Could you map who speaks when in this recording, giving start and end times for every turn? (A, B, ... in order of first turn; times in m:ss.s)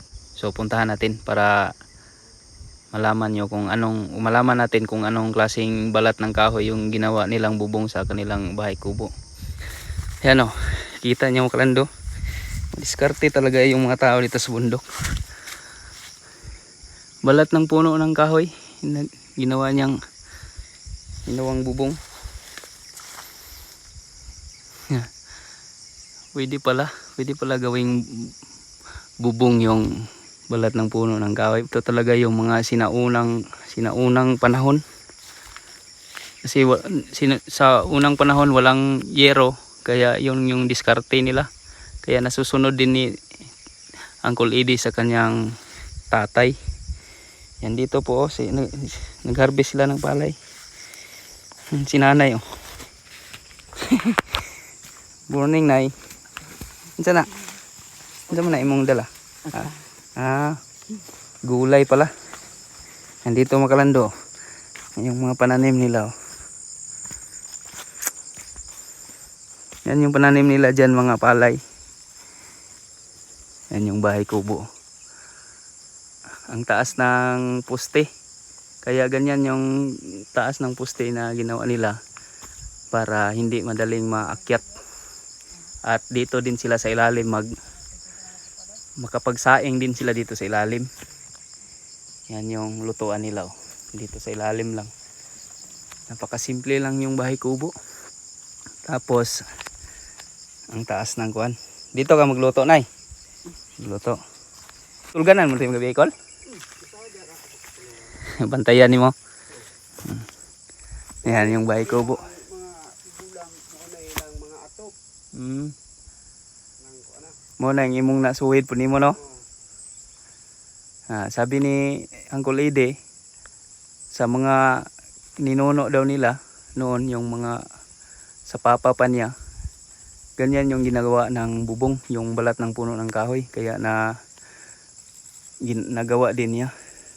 0:00.4-0:01.5 A
0:02.9-0:09.1 A
0:10.2-0:11.9 A
0:12.8-0:14.8 A
0:17.2-0:20.0 A
0:21.3-0:22.0 A
0:26.4-0:28.3 A
0:29.2-0:29.9 A
0:30.5-0:34.8 A
0:36.4-0:41.5 A
0:42.0-0:43.1 A
0:44.2-0:45.4 A
0:46.1-0:46.6 A
0:47.6-0:50.4 A
0:51.7-0:52.4 A
0:53.8-0:54.2 A
0:55.3-0:55.9 A
0:57.0-0:57.3 A
0:58.3-1:00.6 A
1:01.5-1:02.1 A
1:03.2-1:04.1 A
1:05.0-1:06.1 A
1:09.9-1:11.6 A
1:13.7-1:14.6 A
1:16.5-1:18.1 A
1:18.8-1:22.0 A
1:22.9-1:24.7 A
1:25.9-1:27.5 A
1:29.0-1:30.9 A
1:32.3-1:34.9 A
1:36.1-1:37.7 A
1:38.9-1:39.4 A
1:40.7-1:42.9 A
1:43.8-1:44.2 A
1:45.1-1:46.1 A
1:46.9-1:47.5 B
1:48.2-1:49.1 A
1:51.2-1:52.4 A
1:52.4-1:54.9 B
1:55.4-1:55.7 A
1:56.9-1:57.2 B
1:57.6-1:59.2 A
2:01.1-2:03.0 A
2:04.2-2:04.8 A
2:05.4-2:07.6 A
2:08.5-2:09.3 A
2:10.4-2:14.0 A
2:15.6-2:16.7 A